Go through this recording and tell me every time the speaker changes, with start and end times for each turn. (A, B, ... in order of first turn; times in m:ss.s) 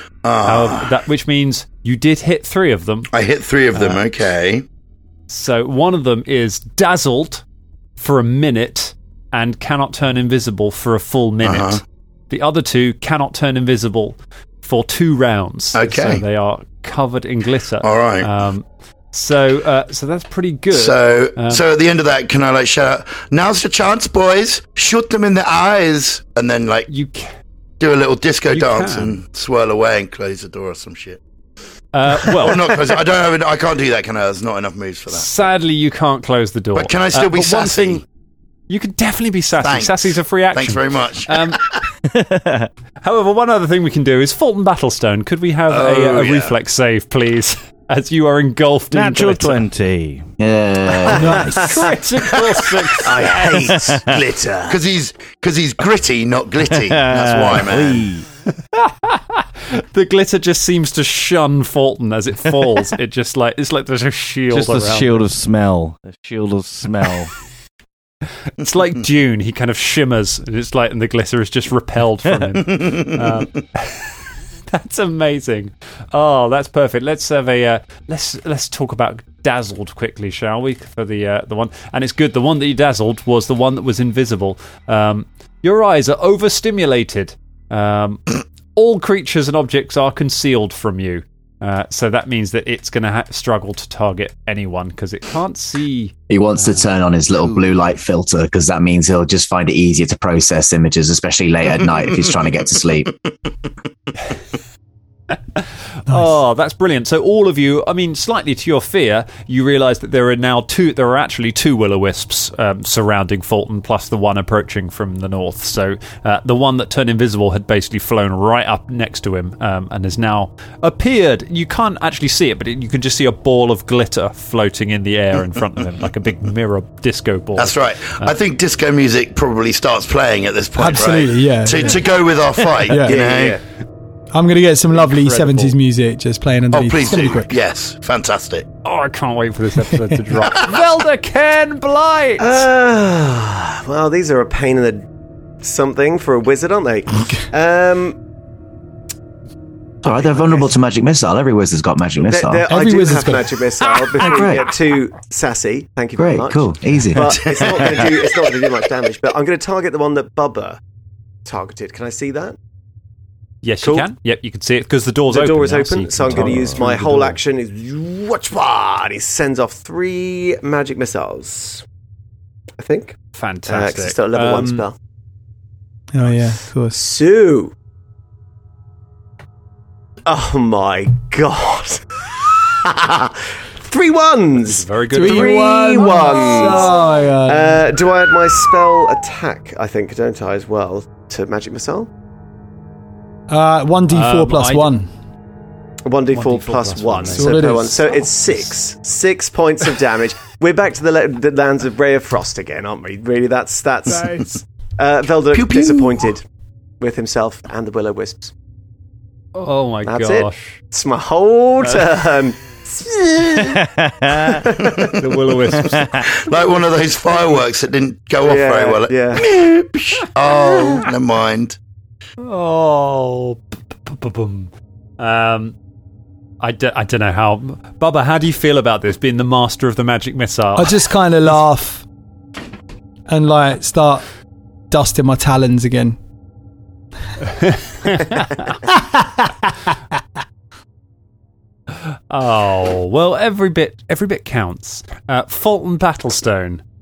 0:00.2-0:00.9 A
0:00.4-0:03.1 B
0:03.1-0:04.6 A
0:03.8-0:04.0 B
0:05.3-0:07.4 B
0:08.0-0:21.6 B
0:11.4-0:11.8 A
0:15.8-0:16.2 A
0:17.8-0:18.3 A
0:20.7-0:26.9 A
0:26.9-0:27.3 B
0:27.8-0:31.2 A
0:28.5-0:29.2 B
0:31.9-0:33.0 B
0:32.1-0:35.4 A
0:35.1-0:38.0 B
0:36.8-0:38.0 A
0:38.7-0:41.6 B
0:39.6-0:41.8 A
0:42.1-0:42.7 C
0:43.0-0:49.6 B
0:45.7-0:46.6 A
0:48.9-0:50.3 C
0:50.4-0:51.7 D
0:51.2-0:51.6 E
0:51.3-0:51.7 F
0:51.5-0:53.8 B
0:53.0-0:58.1 A
0:53.2-0:54.4 C
0:56.7-0:58.3 C
0:58.7-1:05.2 B
1:04.5-1:07.3 C
1:08.6-1:14.2 B
1:12.8-1:13.0 A
1:14.7-1:36.9 B
1:36.3-1:43.1 D
1:45.3-2:08.3 B
2:07.6-2:13.6 A
2:10.8-2:12.0 E
2:12.9-2:13.3 E
2:13.0-2:13.6 F
2:14.3-2:17.5 E
2:14.9-2:15.8 B
2:16.7-2:18.7 A
2:18.8-2:22.7 B
2:22.4-2:25.1 F
2:25.6-2:28.2 F
2:30.0-2:32.6 D
2:30.1-2:30.6 F
2:32.2-2:40.8 F
2:32.7-2:33.6 E
2:34.2-2:34.7 D
2:34.2-2:34.5 E
2:36.2-2:37.3 D
2:37.2-2:38.2 C
2:37.3-2:38.1 A
2:41.4-2:42.6 F
2:43.6-2:47.4 B
2:43.8-2:44.1 F
2:45.3-2:51.8 F
2:52.8-2:55.0 F
2:53.3-2:54.9 B
2:56.1-2:57.0 E
2:56.9-2:57.7 F
3:00.3-3:02.3 F
3:02.8-3:12.1 F
3:04.6-3:05.6 B
3:05.1-3:07.9 E
3:13.5-3:15.1 E
3:14.1-3:15.0 B
3:16.0-3:26.4 F
3:16.3-3:18.7 B
3:17.3-3:18.0 E
3:24.1-3:24.6 B
3:25.5-3:26.3 A
3:27.0-3:28.5 F
3:29.6-3:30.8 B
3:30.0-3:33.8 F
3:31.8-3:32.2 B
3:33.6-3:34.6 C
3:34.6-3:35.2 F
3:34.8-3:35.2 A
3:35.2-3:36.1 B
3:35.7-3:36.3 C
3:36.2-3:41.8 A
3:38.4-3:39.5 F
3:40.4-3:41.1 B
3:42.4-3:45.8 B
3:46.6-3:51.6 B
3:50.8-3:52.0 E
3:53.3-3:54.3 E
3:54.9-3:56.2 E
3:57.4-3:58.8 B
3:59.0-3:59.5 E
4:02.3-4:06.8 B